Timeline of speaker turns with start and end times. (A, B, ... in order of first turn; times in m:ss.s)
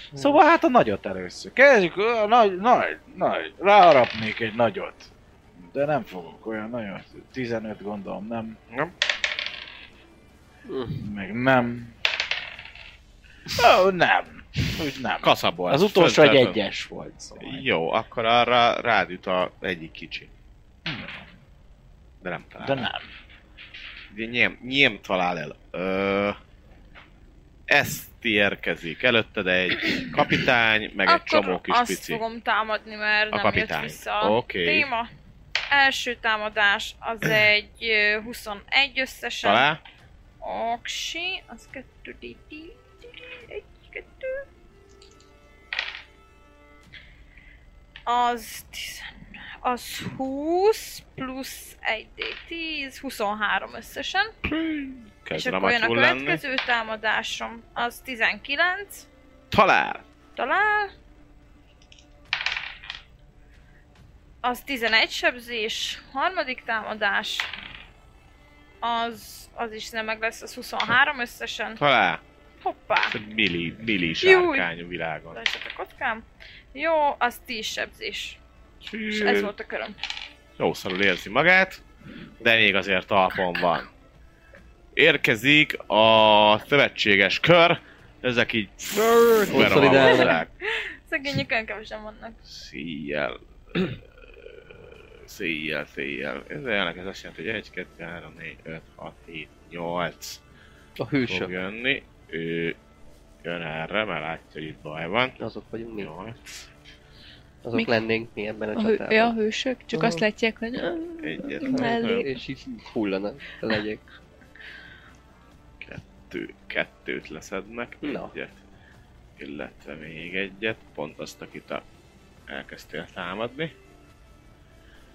0:00.1-0:08.6 A
0:10.7-0:11.1 B
0:11.0-0:12.0 A
0:13.5-0:17.7 A
0:15.2-0:16.6 C
0:17.4-0:20.3 C
0:20.9-0:21.1 A
0:22.2-0:22.9 C
0:22.6-0:23.1 A
0:24.1-0:26.4 C
0:27.7-0:32.2 C
0:31.0-0:35.1 D
0:33.3-0:34.9 C
0:35.7-0:39.7 D
0:39.4-0:39.8 C
0:40.4-0:44.4 D
0:48.1-0:54.3 D
0:54.4-0:56.4 C
0:55.3-0:59.1 D
0:59.5-1:00.0 C
1:00.4-1:00.9 D
1:04.4-1:07.5 D
1:08.8-1:11.8 D
1:11.8-1:12.2 C
1:12.6-1:13.2 D
1:13.1-1:15.4 C
1:14.2-1:14.7 D
1:15.3-1:18.4 D
1:18.8-1:19.5 C
1:19.1-1:20.0 D
1:20.6-1:21.8 C
1:22.4-1:23.9 C
1:24.9-1:30.5 C
1:28.9-1:29.9 A
1:29.5-1:30.4 B
1:29.9-1:32.4 D
1:32.4-1:34.0 C
1:35.2-1:40.4 C
1:41.0-1:41.5 B
1:41.2-1:42.8 C
1:43.4-1:45.4 C
1:45.4-1:46.1 B
1:46.0-1:46.6 C
1:47.6-1:49.4 B
1:48.7-1:52.3 E
1:49.9-1:50.2 B
1:51.2-1:52.3 C
1:51.7-1:54.0 B
1:55.8-1:58.6 C
1:58.0-1:58.3 B
1:59.4-2:01.8 C
2:02.5-2:03.7 C